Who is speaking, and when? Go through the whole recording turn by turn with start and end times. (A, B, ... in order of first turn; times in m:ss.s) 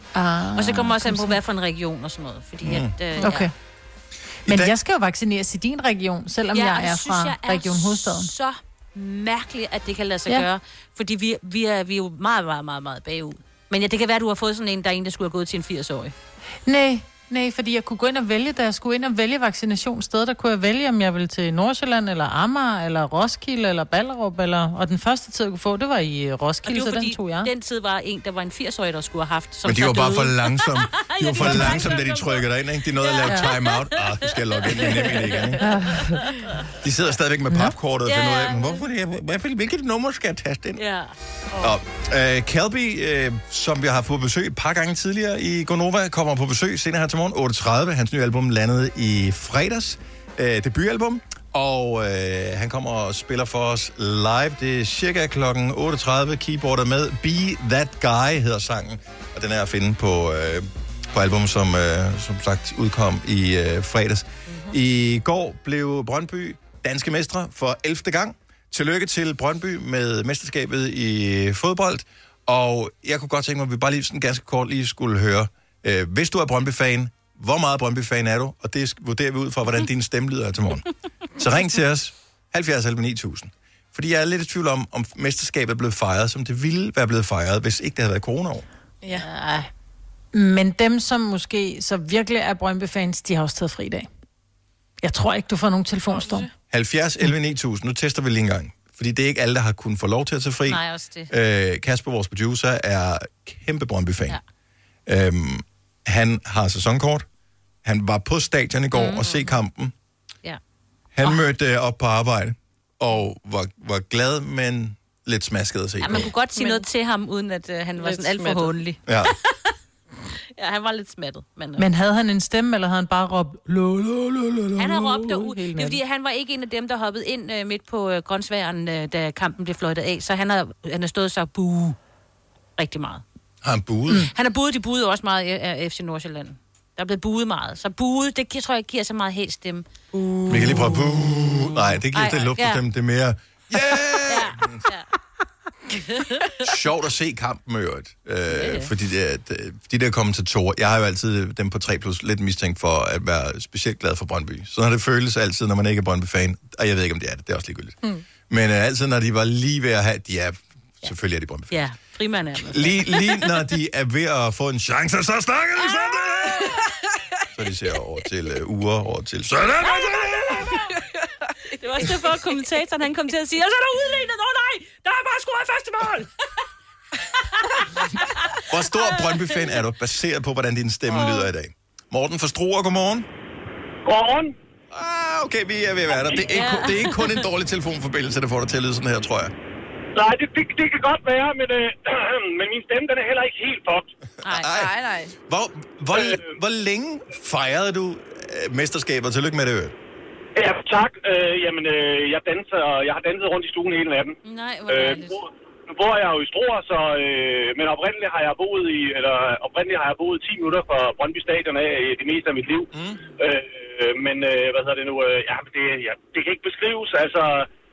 0:00.1-0:01.4 A
0:00.6-0:03.5 B
0:02.6-0:02.9 C
0:03.2-0:03.5 A
0:04.5-0:04.7 C
0:04.5-0:08.3 A
0:06.5-0:16.1 B
0:16.7-0:27.5 A
0:26.7-0:36.7 B
0:29.6-0:35.6 C
0:31.4-0:31.7 A
0:35.6-0:36.2 A
0:36.8-0:40.8 C
0:38.1-0:38.8 B
0:40.8-0:41.1 B
0:41.6-1:28.6 C
1:04.5-1:04.8 D
1:29.0-1:29.3 D
1:29.1-1:29.7 B
1:30.3-1:34.1 A
1:35.0-1:36.5 A
1:36.1-1:36.5 D
1:36.7-1:44.4 C
1:40.7-1:41.3 B
1:45.1-1:47.3 C
1:47.8-1:49.9 C
1:48.9-1:49.3 B
1:51.1-1:56.3 C
1:56.0-1:59.7 B
1:56.6-1:56.8 D
1:58.0-1:58.8 D
1:59.1-1:59.3 C
2:00.6-2:01.9 B
2:01.8-2:06.0 A
2:04.8-2:12.0 B
2:12.8-2:13.2 B
2:13.6-2:14.3 C
2:14.3-2:19.9 B
2:20.1-2:21.0 A
2:20.5-2:24.8 C
2:22.1-2:22.8 B
2:23.8-2:25.1 B
2:26.0-2:26.6 B
2:26.6-2:38.0 C
2:28.5-2:28.9 B
2:38.5-2:41.9 C
2:41.7-2:43.5 B
2:42.6-2:46.8 C
2:45.8-2:46.3 B
2:47.5-2:50.8 C
2:49.8-2:50.9 B
2:51.7-2:56.2 B
2:57.3-2:59.7 B
2:58.7-3:03.3 C
3:01.1-3:01.5 B
3:04.0-3:04.6 E
3:04.9-3:09.5 C
3:06.3-3:07.4 B
3:10.2-3:14.1 E
3:14.4-3:14.7 B
3:14.4-3:14.9 C
3:14.7-3:15.3 D
3:15.5-3:19.9 C
3:16.1-3:16.5 E
3:20.6-3:24.4 E
3:24.4-3:25.4 B
3:24.9-3:37.7 E
3:32.9-3:33.2 C